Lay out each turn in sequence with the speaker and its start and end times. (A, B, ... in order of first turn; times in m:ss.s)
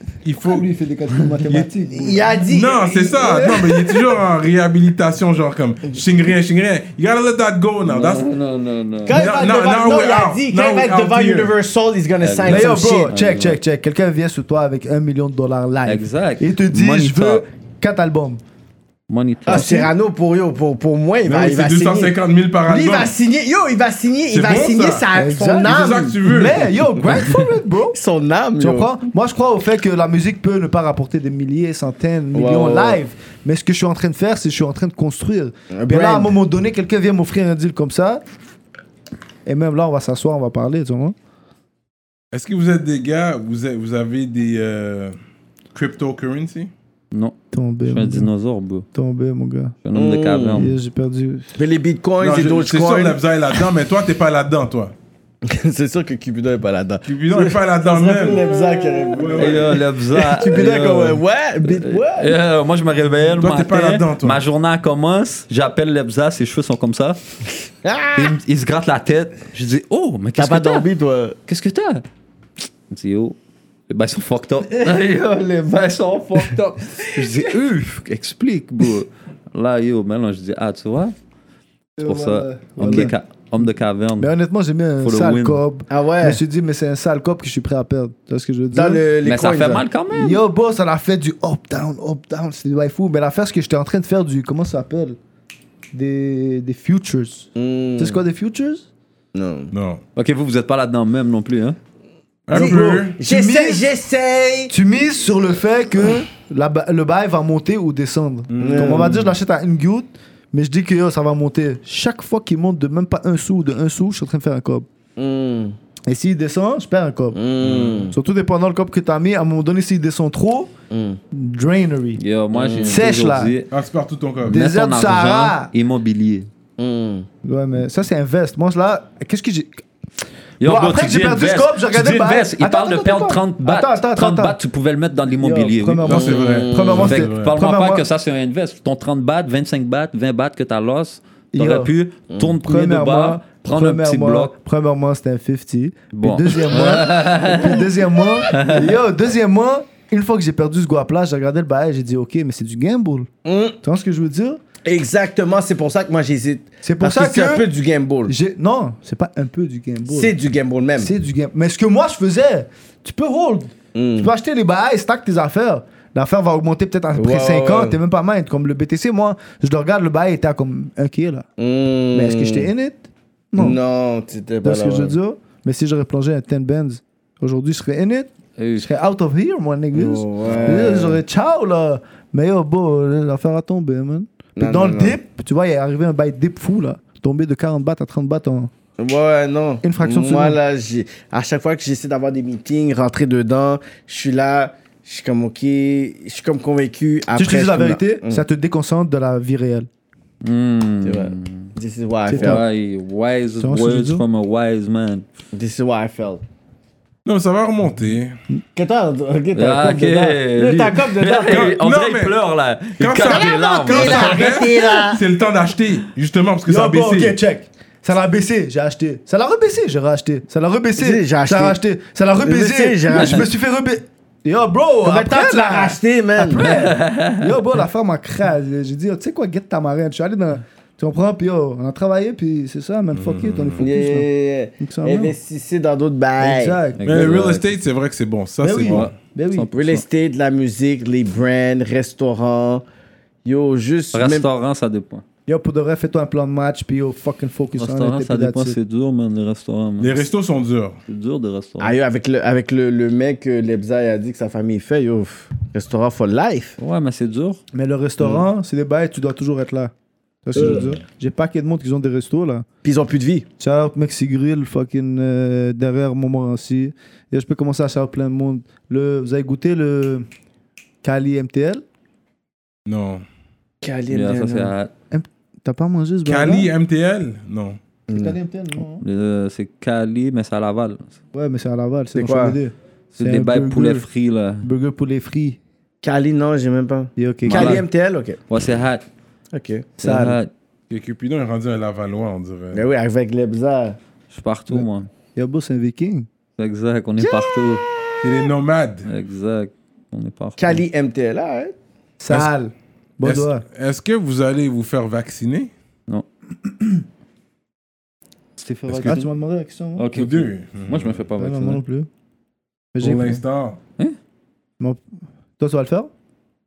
0:00.2-0:00.7 A
0:00.4-0:02.3 B
0:01.9-0:04.0 C
0:02.4-0:08.3 A
0:03.2-0:03.6 B
0:07.8-0:09.2 D
0:09.0-0:13.1 C
0:09.1-0:11.5 A
0:12.2-0:13.6 D
0:12.4-0:18.4 B
0:15.8-0:17.4 D
0:19.1-0:19.8 D
0:19.4-0:22.1 C
0:19.5-0:19.9 B
0:21.2-0:23.1 A
0:22.7-0:26.5 C
0:24.3-0:25.0 A
0:25.1-0:28.0 B
0:25.6-0:26.7 A
0:27.1-0:27.4 C
0:27.9-0:28.9 C
0:28.6-0:38.2 B
0:32.3-0:33.0 C
0:35.7-0:36.4 C
0:39.4-0:41.1 B
0:42.3-0:45.1 A
0:45.7-0:46.7 A
0:47.1-0:48.8 D
0:47.5-0:48.3 B
0:48.9-0:49.8 B
0:49.8-0:50.7 D
0:49.9-0:50.6 C
0:50.5-0:51.5 B
0:51.5-0:53.2 C
0:52.2-0:54.9 A
0:55.4-1:02.4 C
0:57.0-0:58.5 A
0:59.0-0:59.8 A
0:59.3-1:07.2 D
1:03.4-1:04.4 A
1:07.8-1:08.3 C
1:08.2-1:10.9 D
1:10.4-1:11.4 C
1:11.5-1:12.0 D
1:12.9-1:13.4 D
1:13.9-1:21.1 D
1:22.0-1:23.1 B
1:22.0-1:24.3 D
1:24.2-1:29.0 B
1:25.0-1:25.6 D
1:25.9-1:26.4 C
1:28.7-1:29.8 C
1:29.2-1:30.4 D
1:30.1-1:35.2 B
1:35.9-1:38.8 B
1:37.6-1:38.2 C
1:39.3-1:39.7 C
1:39.7-1:40.0 A
1:40.2-1:41.8 D
1:42.5-1:43.2 A
1:42.5-1:43.8 B
1:42.5-1:44.7 C
1:44.7-1:54.9 B
1:48.5-1:49.3 A
1:48.6-1:49.2 C
1:55.2-1:55.8 C
1:56.1-1:57.4 B
1:57.3-1:58.2 C
1:57.6-1:58.1 A
1:58.1-2:00.7 B
2:00.9-2:01.2 C
2:01.3-2:02.2 B
2:02.2-2:03.7 D
2:02.5-2:03.0 C
2:02.8-2:03.5 B
2:03.7-2:04.6 A
2:04.4-2:05.7 B
2:04.4-2:06.5 D
2:06.8-2:07.3 C
2:07.4-2:09.8 B
2:10.6-2:16.2 D
2:10.6-2:14.6 B
2:15.4-2:18.0 B
2:16.0-2:17.5 A
2:16.1-2:17.1 C
2:17.0-2:24.5 D
2:21.5-2:21.9 B
2:22.6-2:33.3 B
2:26.1-2:27.9 D
2:28.5-2:28.9 D
2:33.4-2:33.8 C
2:33.8-2:34.6 B
2:34.8-2:38.3 C
2:36.8-2:37.6 B
2:38.3-2:40.3 B
2:40.1-2:41.1 C
2:41.0-2:51.4 B
2:43.9-2:44.3 C
2:47.1-2:48.0 C
2:51.6-2:52.7 C
2:52.1-2:53.8 B
2:53.6-2:55.1 C
2:54.6-3:08.7 B
2:58.6-2:58.9 D
2:59.9-3:01.2 C
3:04.6-3:05.2 C
3:09.0-3:18.4 C
3:09.8-3:10.6 B
3:17.3-3:19.9 B
3:20.4-3:21.7 D
3:21.0-3:22.6 C
3:22.3-3:22.6 B
3:22.3-3:25.2 D
3:23.6-3:24.2 B
3:25.5-3:26.4 C
3:27.2-3:28.4 A
3:28.7-3:31.7 C
3:29.5-3:34.8 D
3:31.4-3:32.4 A
3:33.0-3:37.4 A
3:33.2-3:35.2 C
3:36.7-3:54.3 B
3:41.0-3:41.8 C
3:42.4-3:43.5 C
3:43.1-3:43.4 D
3:45.0-3:46.7 C
3:46.6-3:47.5 D
3:53.1-3:53.9 A
3:53.8-3:56.8 C
3:54.8-3:55.3 B
3:56.4-3:57.3 B
3:57.0-3:57.7 D
3:57.0-3:59.1 A
3:58.6-3:59.7 B
3:58.8-4:00.0 D
3:59.7-4:02.8 C
4:03.4-4:04.5 C
4:04.1-4:05.2 D
4:05.5-4:08.8 B
4:07.8-4:10.2 D
4:10.0-4:11.0 A
4:11.1-4:12.0 D
4:11.8-4:16.8 C
4:16.8-4:17.6 D
4:17.7-4:19.9 B
4:18.2-4:18.4 C
4:20.4-4:22.6 B
4:20.6-4:20.9 C
4:22.8-4:23.4 C
4:23.6-4:30.2 B
4:31.0-4:31.8 B
4:32.8-4:33.2 A
4:33.8-4:34.7 C
4:34.1-4:34.9 D
4:35.1-4:36.7 B
4:36.2-4:37.8 A
4:38.1-4:38.4 C
4:38.1-4:39.0 B
4:39.0-4:41.1 D
4:41.3-4:44.1 B
4:42.1-4:42.6 C
4:43.1-4:44.7 D
4:44.6-4:45.6 B
4:46.0-4:48.4 C
4:47.2-4:47.8 B
4:47.4-4:47.8 D
4:48.5-4:49.0 D
4:49.5-4:49.9 C
4:50.0-4:50.5 D
4:50.0-4:50.4 B
4:50.9-4:52.8 A
4:52.7-4:54.0 C
4:54.3-4:55.1 D
4:54.7-4:56.3 B
4:56.6-4:57.8 D
4:57.2-4:57.5 C
4:58.2-4:59.1 A
4:59.0-5:00.8 D
5:00.6-5:01.7 C
5:02.2-5:03.6 B
5:03.2-5:05.7 A
5:06.6-5:07.0 B
5:08.6-5:09.3 D
5:08.9-5:09.1 A
5:09.0-5:10.1 B
5:10.0-5:11.8 D
5:10.1-5:11.2 A
5:11.4-5:12.1 B
5:12.9-5:13.4 B
5:13.0-5:13.8 A
5:15.6-5:16.1 B